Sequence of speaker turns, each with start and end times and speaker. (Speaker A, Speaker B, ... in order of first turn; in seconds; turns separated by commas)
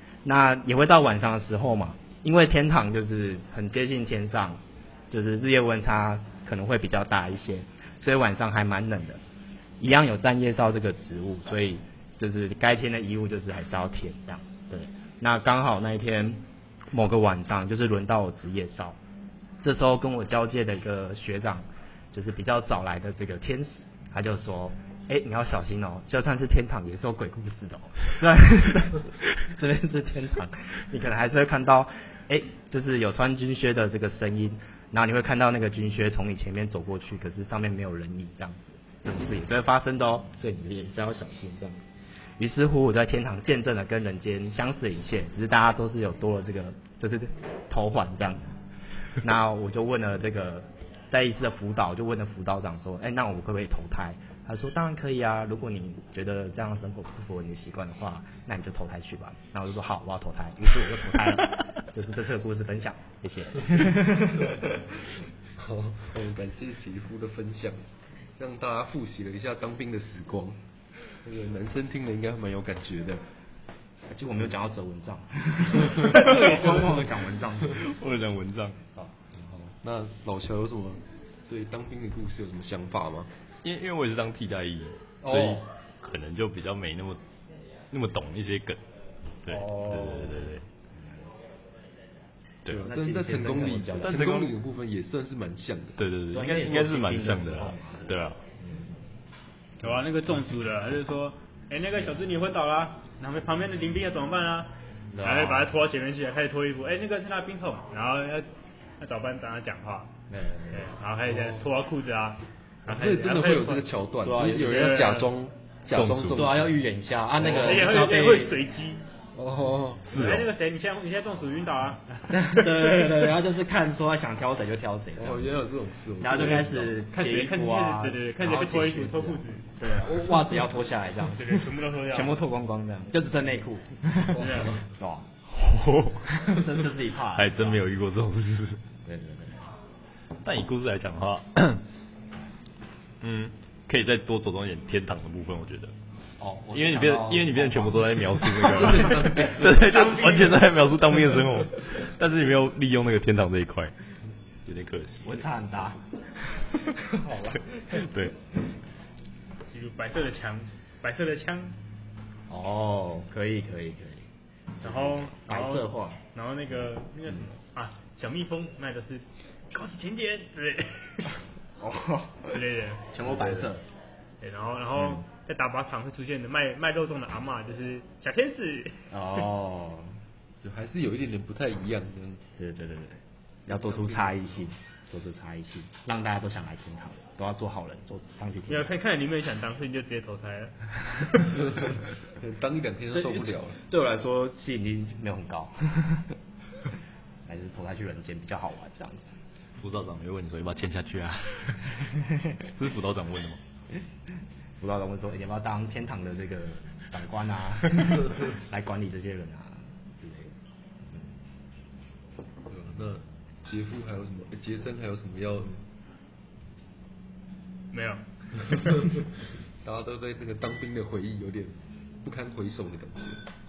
Speaker A: 0.2-9.2, Speaker A: 9.8-19.0, Speaker A: 19.6-41.8, Speaker A: 42.4-48.5, Speaker A: 49.2-64.8, Speaker B: 65.6-67.8, Speaker B: 68.4-70.6, Speaker B: 71.2-73.2, Speaker A: 74.1-77.8, Speaker C: 77.7-78.8, Speaker A: 79.0-79.7, Speaker B: 79.8-83.3, Speaker C: 83.6-87.2, Speaker A: 85.2-85.7, Speaker C: 87.9-88.8, Speaker C: 89.5-90.7, Speaker A: 89.5-91.3, Speaker B: 92.7-96.0, Speaker A: 92.8-94.3, Speaker C: 94.0-94.5, Speaker C: 96.0-98.4, Speaker A: 96.3-99.0, Speaker D: 99.8-108.5, Speaker A: 105.1-105.8, Speaker D: 109.0-110.1, Speaker A: 110.3-110.9, Speaker D: 110.7-113.9, Speaker B: 112.9-116.7, Speaker A: 114.2-115.0, Speaker D: 114.8-115.3, Speaker C: 115.9-116.6, Speaker A: 116.3-118.6, Speaker B: 117.4-117.9, Speaker D: 117.7-119.0, Speaker B: 119.3-120.1, Speaker C: 120.1-120.5, Speaker D: 120.1-123.1, Speaker A: 122.3-125.5, Speaker B: 125.2-127.0, Speaker A: 126.2-135.3, Speaker D: 127.1-129.8, Speaker D: 131.3-132.4, Speaker D: 134.4-134.8, Speaker B: 134.4-134.8, Speaker C: 135.5-136.3, Speaker A: 136.3-137.8, Speaker C: 137.3-138.8, Speaker A: 139.1-139.7, Speaker C: 140.4-141.8, Speaker C: 143.2-145.9, Speaker A: 146.4-149.5, Speaker C: 146.7-153.9, Speaker B: 148.6-150.0, Speaker D: 150.1-150.5, Speaker C: 154.7-155.4, Speaker A: 155.2-158.1, Speaker C: 157.9-158.4, Speaker D: 159.7-161.8, Speaker A: 162.5-164.3, Speaker A: 164.8-166.2, Speaker D: 164.8-171.3, Speaker A: 171.8-173.8, Speaker D: 172.5-173.6, Speaker D: 174.4-179.0, Speaker A: 175.0-175.2, Speaker A: 179.1-180.2, Speaker B: 180.6-182.4, Speaker A: 182.6-188.9, Speaker B: 183.7-184.7, Speaker D: 188.7-191.8, Speaker B: 191.6-193.8, Speaker A: 193.1-196.3, Speaker A: 197.5-199.3, Speaker C: 199.8-201.8, Speaker C: 202.7-203.6, Speaker A: 204.8-210.5, Speaker B: 212.7-215.8, Speaker D: 217.9-219.2, Speaker B: 219.8-223.4